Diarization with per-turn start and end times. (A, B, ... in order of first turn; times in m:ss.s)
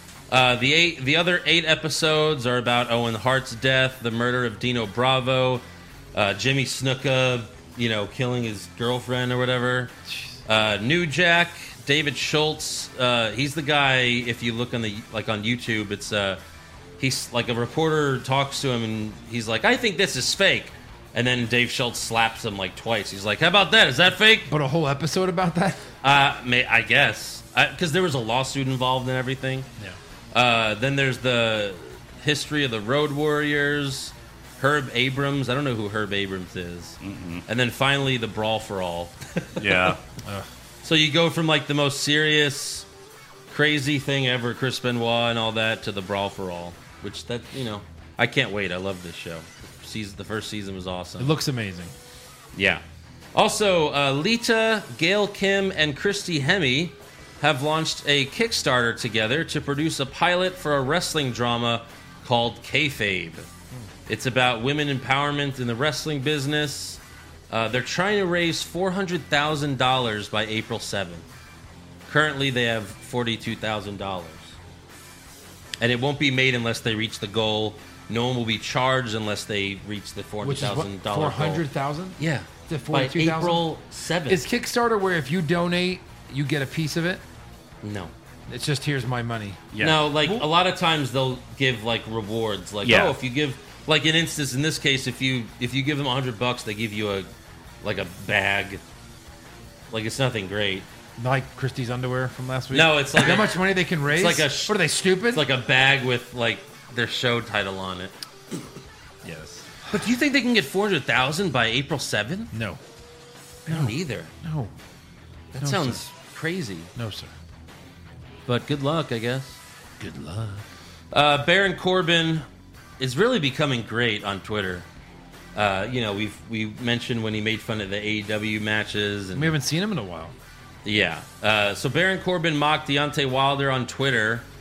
0:00.3-0:09.9 A
0:10.5-0:16.4 A
0:17.0-0:24.5 A
0:24.5-0:25.9 B
0:26.0-0:29.7 A
0:30.3-0:40.0 A
0:37.0-0:37.4 C
0:39.6-0:40.0 C
0:40.8-0:42.9 A
0:43.5-0:51.3 A
0:51.2-0:51.9 B
0:52.5-0:52.8 A
0:53.3-1:03.5 A
1:04.1-1:11.2 A
1:12.1-1:14.6 A
1:15.8-1:21.6 A
1:20.4-1:23.6 B
1:22.2-1:24.4 A
1:24.3-1:27.2 B
1:27.8-1:28.1 A
1:28.5-1:29.6 B
1:29.7-1:30.0 C
1:29.8-1:37.3 A
1:30.2-1:30.5 B
1:32.8-1:33.2 C
1:37.8-1:38.8 A
1:39.9-1:40.9 A
1:41.2-1:45.4 B
1:42.7-1:48.1 A
1:49.2-1:49.7 C
1:49.9-1:52.5 A
1:52.5-1:52.8 B
1:53.7-1:54.3 A
1:53.7-1:54.7 B
1:55.5-1:56.9 A
1:55.6-1:56.0 B
1:57.0-1:57.3 B
1:58.5-1:59.6 A
2:00.0-2:00.6 B
2:01.1-2:02.5 A
2:03.0-2:04.9 A
2:05.6-2:09.5 A
2:09.3-2:10.3 B
2:10.8-2:14.5 A